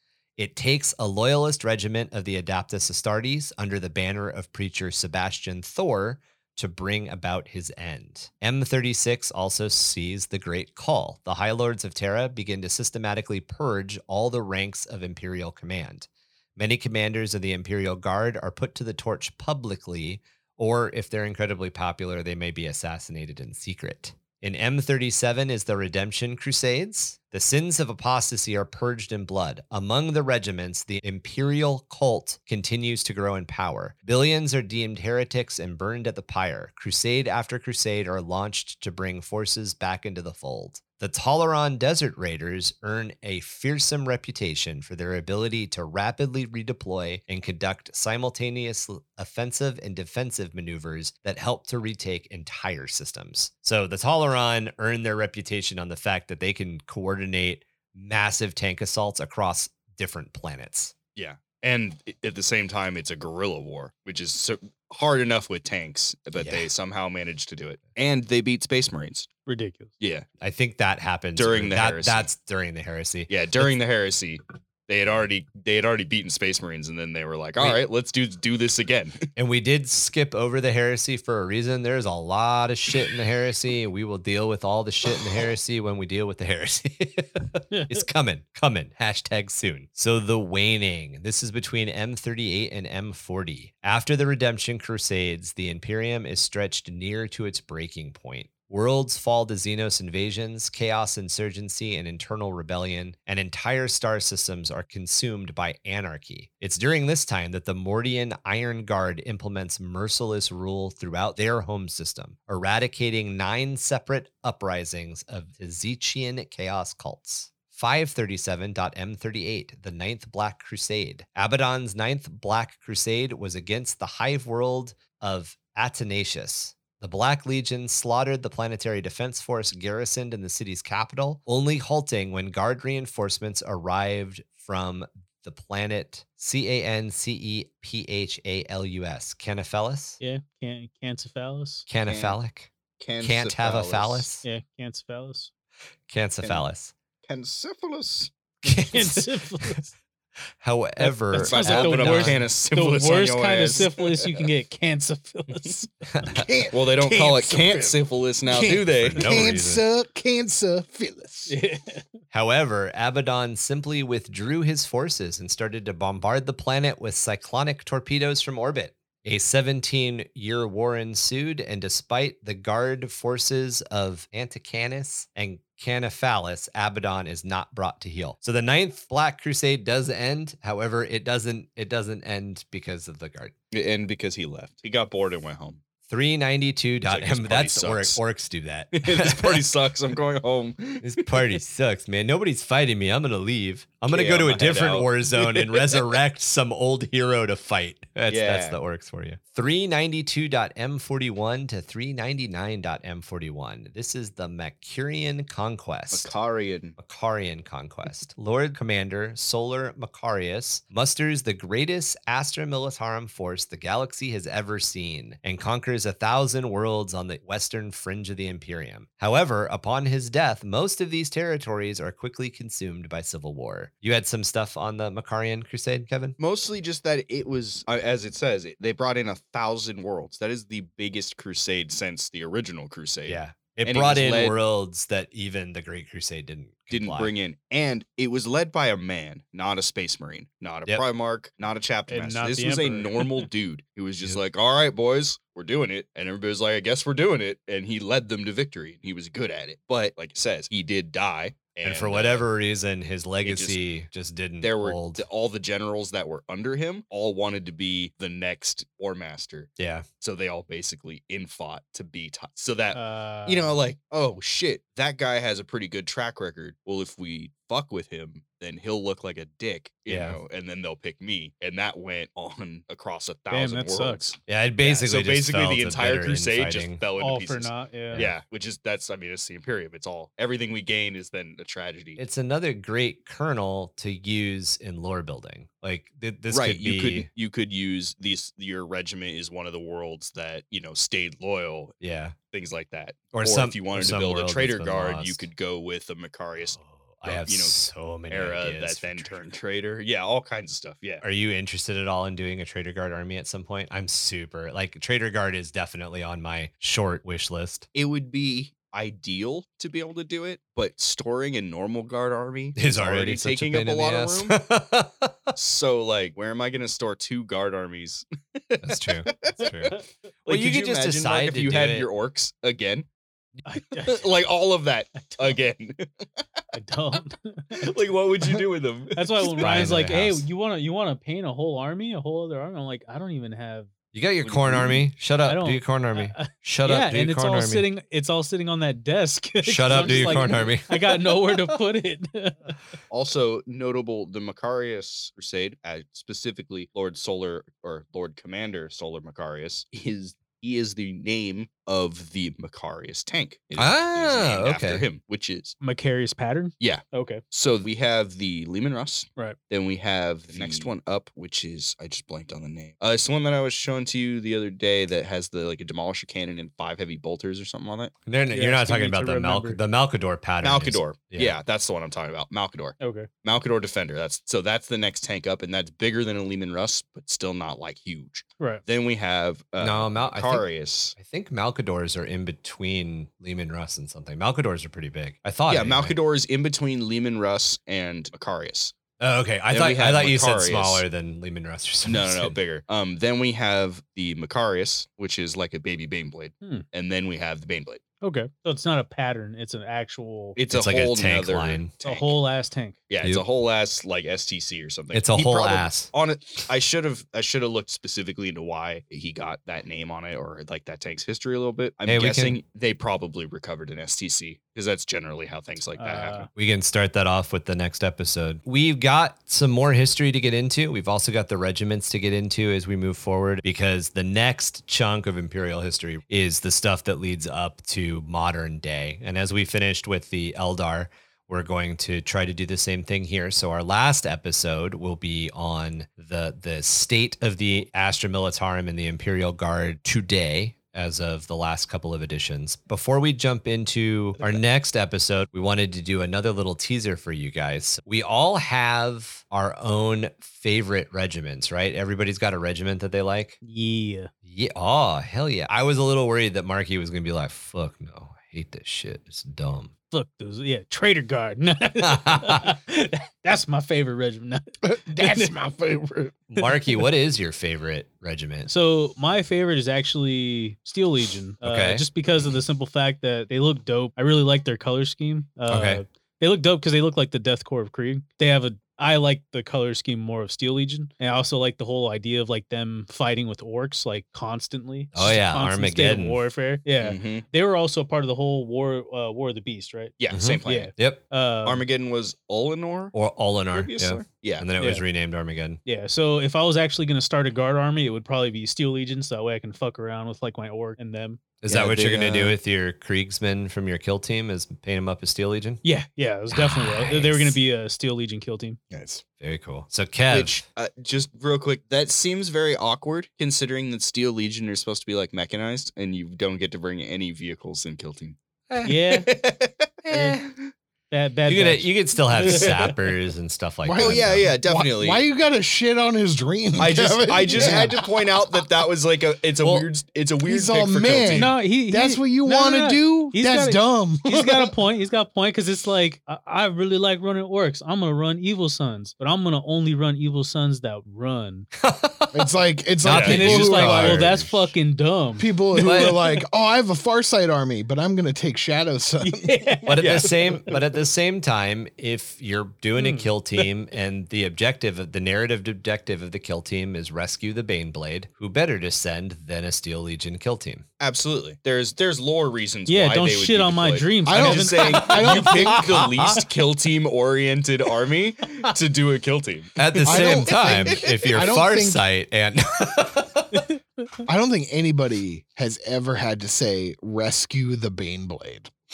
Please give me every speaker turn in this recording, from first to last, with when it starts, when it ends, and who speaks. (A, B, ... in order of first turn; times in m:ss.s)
0:00.4-1:01.0 A
1:01.2-1:09.3 B
1:06.4-1:06.7 A
1:09.5-1:09.9 C
1:10.0-1:10.3 B
1:10.4-1:13.3 A
1:11.4-1:12.3 B
1:13.3-1:19.2 B
1:19.4-2:20.2 A
1:27.7-1:28.0 C
2:20.2-2:21.9 C
2:21.9-2:24.4 A
2:22.1-2:22.4 B
2:23.0-2:24.3 B
2:24.4-2:25.5 C
2:26.1-2:26.9 A
2:27.3-2:28.3 B
2:28.6-2:29.7 A
2:28.9-2:29.9 C
2:30.6-2:32.5 A
2:31.0-2:35.9 C
2:31.3-2:34.5 B
2:36.1-2:36.5 A
2:36.3-2:41.6 D
2:36.7-2:39.3 B
2:39.0-2:39.8 A
2:41.5-2:42.1 C
2:42.3-3:03.5 A
3:03.7-3:05.8 B
3:06.1-3:09.7 A
3:07.0-3:08.2 B
3:09.0-3:11.4 B
3:11.0-3:26.3 A
3:14.1-3:16.0 B
3:18.3-3:18.8 B
3:26.1-3:27.0 B
3:27.0-3:46.4 A
3:46.4-3:54.6 B
3:53.3-3:57.3 A
3:56.9-4:12.4 B
4:02.1-4:03.5 C
4:11.8-4:15.2 A
4:13.4-4:13.8 B
4:14.6-4:42.2 B
4:19.8-4:20.1 A
4:22.9-4:23.8 C
4:30.1-4:30.4 A
4:33.5-4:34.4 C
4:34.5-4:37.0 A
4:37.2-4:38.3 C
4:42.2-4:47.3 A
4:46.5-4:52.0 B
4:52.0-4:52.4 A
4:52.5-4:57.8 B
4:53.3-4:55.4 A
4:56.8-4:59.5 A
4:58.3-5:01.2 B
5:01.2-5:07.9 A
5:07.9-5:14.6 B
5:12.8-5:15.5 A
5:15.6-5:23.1 B
5:18.8-5:22.1 A
5:23.6-5:24.2 C
5:24.0-5:26.3 B
5:26.7-5:27.9 C
5:27.7-5:30.0 B
5:29.2-5:33.9 C
5:29.6-5:30.4 A
5:34.1-5:37.9 A
5:34.4-5:35.0 B
5:35.4-5:42.8 C
5:39.6-5:41.2 A
5:39.9-5:40.7 B
5:43.1-5:55.8 B
5:53.8-5:55.1 A
5:55.8-5:57.4 C
5:56.8-6:08.1 B
6:00.5-6:00.9 A
6:08.3-6:11.6 A
6:08.5-6:09.8 C
6:10.6-6:21.2 B
6:13.0-6:13.3 C
6:19.8-6:26.2 A
6:25.7-6:29.0 B
6:29.2-6:32.5 A
6:29.7-6:31.0 B
6:32.1-6:38.0 B
6:38.2-6:40.6 C
6:40.6-6:42.4 B
6:40.7-6:41.9 A
6:42.0-6:43.0 C
6:43.1-6:56.5 B
6:45.1-6:46.1 A
6:52.1-6:52.6 A
6:56.0-6:56.5 C
6:56.6-7:33.6 A
7:33.6-7:34.3 C
7:34.5-7:39.9 A
7:40.1-7:45.6 C
7:42.0-7:42.7 A
7:44.8-7:46.4 D
7:46.5-7:48.7 A
7:48.7-8:11.8 C
7:51.6-7:52.0 A
7:55.7-7:56.0 A
8:05.1-8:06.4 A
8:07.0-8:07.4 B
8:10.2-8:10.9 B
8:10.3-8:11.2 A
8:11.6-8:13.2 B
8:13.1-8:15.8 A
8:13.7-8:14.7 B
8:14.8-8:15.0 C
8:15.8-8:21.4 C
8:21.6-8:25.8 A
8:21.7-8:22.6 B
8:25.8-8:28.8 C
8:26.5-8:27.6 A
8:28.9-8:29.2 D
8:29.4-8:30.6 A
8:30.3-8:40.7 B
8:38.8-8:39.3 C
8:40.1-8:40.4 C
8:41.1-8:43.1 C
8:41.5-8:44.5 A
8:43.8-8:48.1 D
8:44.0-8:45.2 B
8:46.8-8:51.6 B
8:47.5-8:47.8 C
8:49.6-8:49.9 A
8:50.4-8:54.8 D
8:51.3-9:01.7 C
9:01.8-9:02.5 A
9:02.3-9:04.6 D
9:03.0-9:04.5 A
9:03.1-9:03.4 B
9:03.2-9:06.4 C
9:05.4-9:09.6 D
9:05.8-9:06.2 A
9:09.2-9:10.3 C
9:09.9-9:20.8 A
9:10.0-9:10.4 B
9:13.0-9:13.6 C
9:21.0-9:31.1 B
9:22.9-9:25.6 C
9:24.3-9:26.4 D
9:29.8-9:33.7 A
9:30.0-9:32.0 D
9:33.5-9:34.1 C
9:34.3-9:38.7 D